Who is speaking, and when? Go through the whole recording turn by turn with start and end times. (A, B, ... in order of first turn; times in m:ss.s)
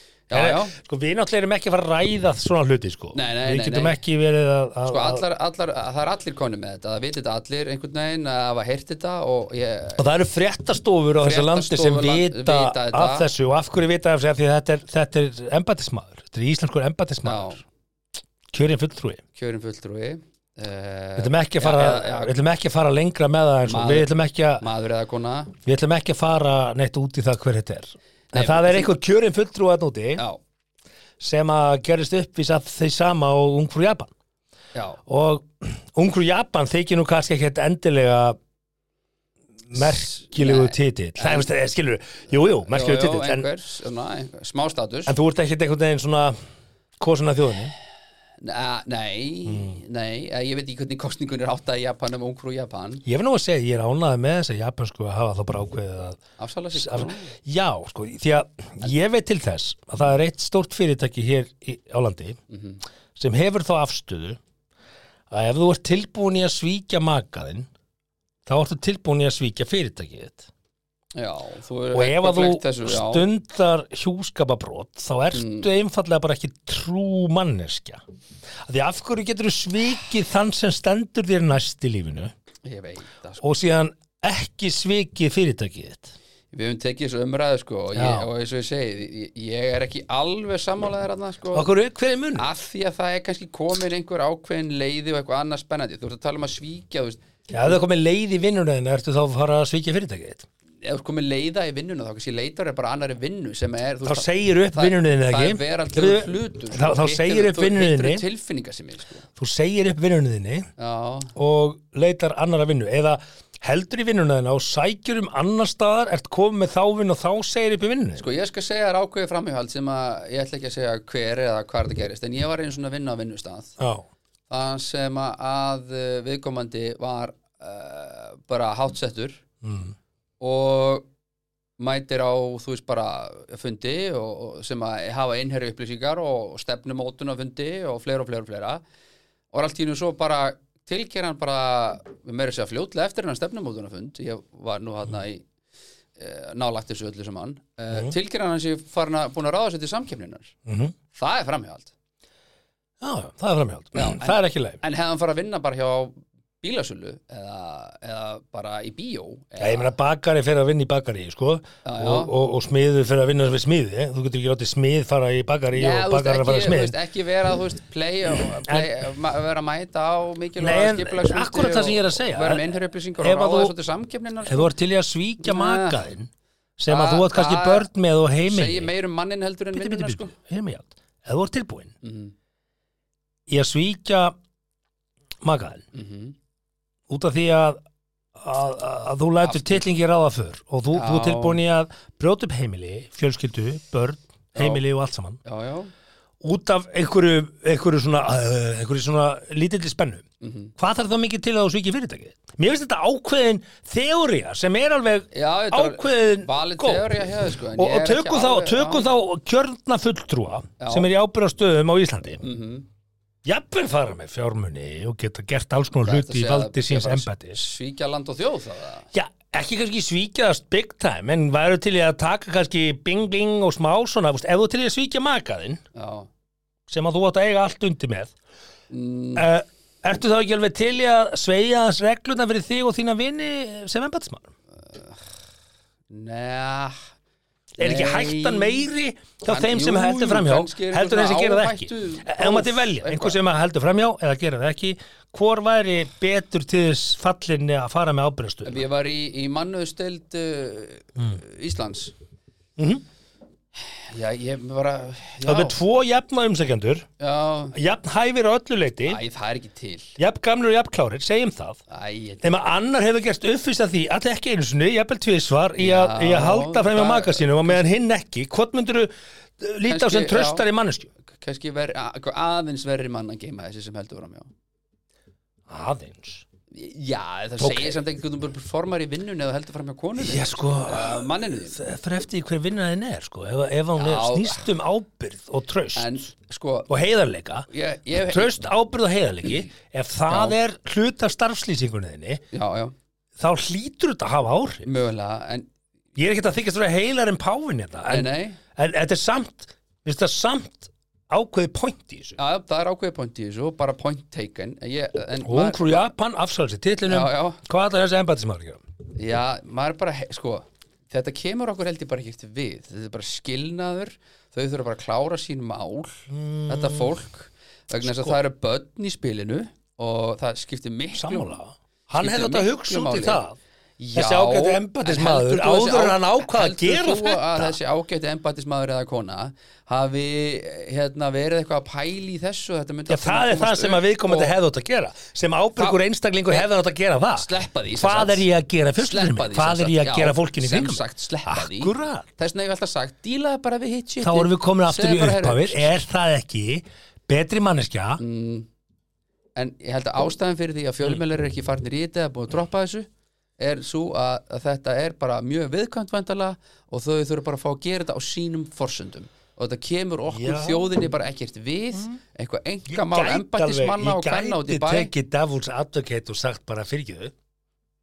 0:00.3-0:00.8 A
0:00.3-0:05.2 B
0:03.1-0:04.0 A
0:04.8-0:10.0 A
0:10.0-0:17.6 B
0:11.2-0:13.3 A
0:17.2-0:17.6 A
0:18.5-0:19.2 B
0:19.3-0:22.4 A
0:21.2-0:24.6 B
0:23.6-0:25.5 A
0:25.6-0:30.2 B
0:28.3-0:28.9 A
0:31.2-0:34.1 B
0:34.7-0:35.0 A
0:35.1-0:38.4 B
0:39.7-0:43.4 B
0:39.7-0:41.5 A
0:42.7-0:45.1 A
0:45.0-0:46.4 B
0:47.0-0:47.7 B
0:48.4-0:53.0 A
0:49.5-0:49.8 B
0:53.0-0:56.2 B
0:56.4-0:57.3 A
0:56.7-1:02.4 B
1:02.5-1:02.8 A
1:03.2-1:04.4 B
1:05.3-1:07.7 B
1:08.4-1:10.5 B
1:11.1-1:13.3 A
1:11.9-1:18.0 B
1:15.3-1:15.7 A
1:18.6-1:22.3 B
1:22.6-1:23.4 A
1:23.4-1:26.1 B
1:26.5-1:31.7 A
1:27.9-1:28.3 B
1:31.5-1:32.5 B
1:32.3-1:37.8 A
1:37.5-1:40.5 B
1:40.8-1:49.3 A
1:44.0-1:48.2 B
1:49.4-1:50.7 B
1:50.8-1:51.3 A
1:51.3-1:58.3 B
1:58.2-2:03.7 A
2:03.8-2:04.1 B
2:04.5-2:09.4 A
2:09.6-2:09.9 B
2:10.4-2:11.0 A
2:11.8-2:18.8 A
2:19.5-2:25.5 A
2:26.2-2:30.5 A
2:30.6-2:30.9 B
2:31.1-2:31.9 A
2:33.0-2:34.8 B
2:33.9-2:39.9 A
2:39.6-2:46.9 B
2:41.8-2:42.3 A
2:45.7-2:54.7 A
2:48.6-2:48.9 B
2:50.6-2:52.6 B
2:53.2-2:53.7 B
2:54.4-2:58.9 B
2:55.4-2:56.0 A
2:56.9-2:57.9 A
2:58.4-3:00.3 A
2:59.7-3:01.9 B
3:02.0-3:02.3 A
3:03.5-3:04.4 B
3:05.4-3:05.8 B
3:05.9-3:06.4 A
3:07.1-3:07.8 B
3:08.4-3:15.4 B
3:09.4-3:09.8 A
3:10.9-3:11.6 A
3:14.5-3:14.8 A
3:15.4-3:15.9 A
3:16.4-3:20.2 B
3:20.4-3:20.7 A
3:20.8-3:27.2 B
3:25.3-3:29.1 A
3:27.8-3:32.4 B
3:30.8-3:31.1 A
3:32.4-3:32.9 A
3:33.4-3:37.6 B
3:36.0-3:39.1 A
3:39.1-3:45.8 B
3:45.9-3:46.3 A
3:46.9-3:48.3 B
3:48.9-3:49.5 A
3:49.4-3:54.5 B
3:54.8-3:55.2 A
3:56.1-3:57.0 A
3:57.8-4:08.8 B
3:57.8-3:58.9 A
3:59.4-4:03.4 A
4:08.6-4:12.1 A
4:12.8-4:13.0 B
4:14.0-4:15.8 A
4:15.4-4:17.1 B
4:17.2-4:17.8 A
4:17.7-4:19.2 B
4:19.0-4:20.1 A
4:20.2-4:21.8 B
4:21.9-4:22.6 A
4:22.4-4:31.1 B
4:25.8-4:27.8 A
4:29.9-4:30.6 A
4:31.3-4:34.5 A
4:35.7-4:36.4 B
4:36.7-4:41.8 A
4:37.6-4:38.0 B
4:40.2-4:46.2 B
4:44.0-4:44.7 A
4:45.9-4:46.9 A
4:46.9-4:47.7 B
4:47.7-4:48.5 A
4:48.3-4:52.4 B
4:50.3-4:50.6 A
4:52.5-4:52.9 A
4:53.4-4:54.9 B
4:54.8-4:55.7 A
4:56.2-5:02.4 B
4:58.1-4:58.6 A
5:02.4-5:06.1 A
5:05.4-5:08.8 B
5:07.1-5:07.6 A
5:09.2-5:21.6 A
5:16.3-5:17.1 B
5:18.0-5:18.4 B
5:21.1-5:23.6 B
5:22.2-5:23.4 A
5:24.0-5:34.6 A
5:24.1-5:27.8 B
5:33.1-5:42.3 B
5:35.8-5:36.7 A
5:37.4-5:38.4 A
5:39.0-5:45.9 A
5:44.2-5:48.2 B
5:48.2-5:48.7 A
5:49.6-5:53.1 A
5:53.6-6:05.1 A
6:00.3-6:00.9 B
6:02.9-6:07.3 B